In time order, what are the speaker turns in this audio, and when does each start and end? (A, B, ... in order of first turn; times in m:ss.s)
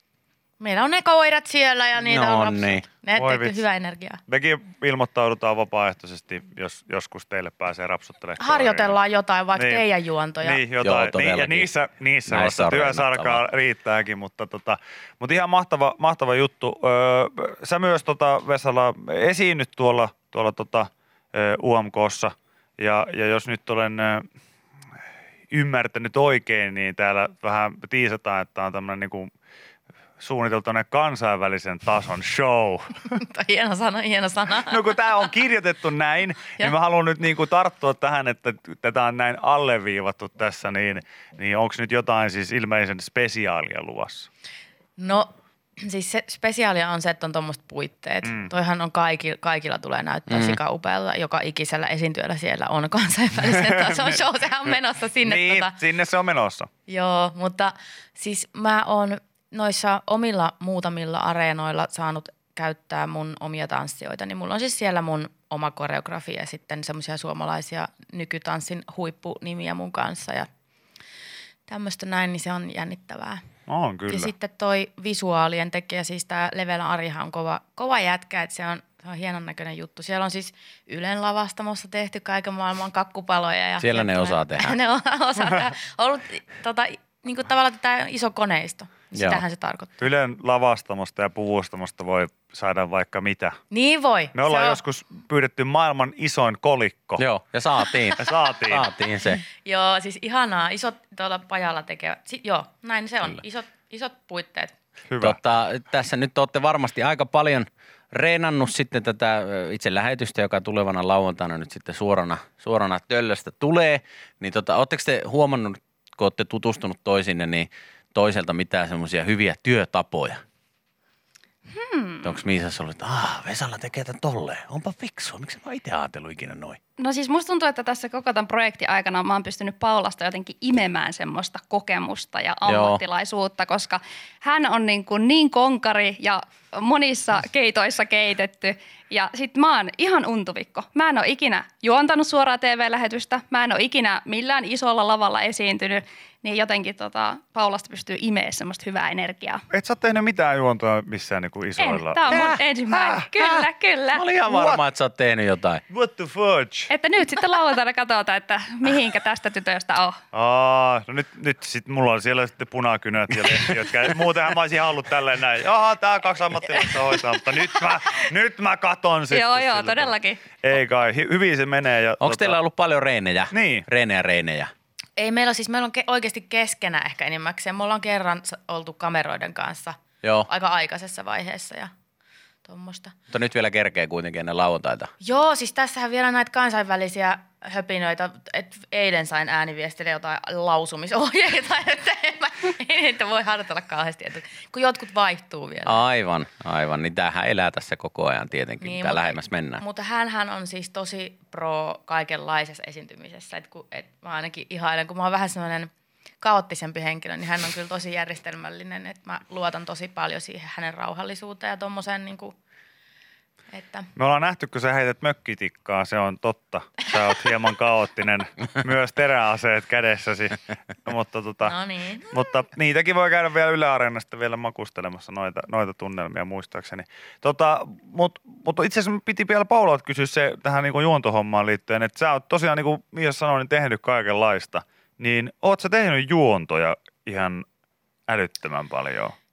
0:00.6-0:04.2 A
0:02.0-0:02.8 B
0:03.2-0:03.6 C
0:04.3-0:09.0 C
0:08.4-0:10.6 A
0:09.6-0:09.8 C
0:10.4-0:24.2 C
0:10.8-0:11.7 B
0:12.2-0:13.4 B
0:25.5-0:29.3 C
0:30.2-0:33.0 C
0:33.2-0:34.8 A
0:34.6-0:44.3 C
0:45.0-0:55.8 A
0:48.2-0:48.5 C
0:50.3-0:50.6 B
0:53.4-0:54.2 C
0:55.2-0:56.7 C
0:56.9-1:10.5 A
1:11.7-1:13.4 A
1:13.7-1:14.3 C
1:14.1-1:30.0 A
1:23.8-1:24.8 B
1:29.1-1:29.4 B
1:30.0-1:33.6 C
1:33.7-1:34.8 A
1:34.3-1:37.2 C
1:37.2-1:39.4 B
1:38.2-1:38.9 C
1:39.6-1:44.7 A
1:45.1-1:45.4 C
1:45.2-2:00.4 B
2:01.7-2:02.4 D
2:02.2-2:06.8 B
2:07.0-2:29.6 D
2:12.6-2:13.0 B
2:29.7-2:33.2 C
2:31.8-2:34.3 D
2:32.3-2:32.6 B
2:34.1-2:35.8 B
2:34.4-2:34.8 C
2:35.9-2:36.9 C
2:36.9-2:40.2 D
2:40.3-2:52.6 C
2:49.3-2:50.4 D
2:52.2-2:54.7 B
2:53.5-2:53.8 C
2:55.2-3:01.9 A
3:02.6-3:03.1 A
3:03.3-3:05.1 B
3:05.2-3:16.0 A
3:15.8-3:19.8 B
3:18.8-3:32.6 A
3:33.7-3:34.1 A
3:34.1-3:41.7 C
3:41.6-3:42.5 A
3:42.3-3:57.6 C
3:58.3-3:59.3 C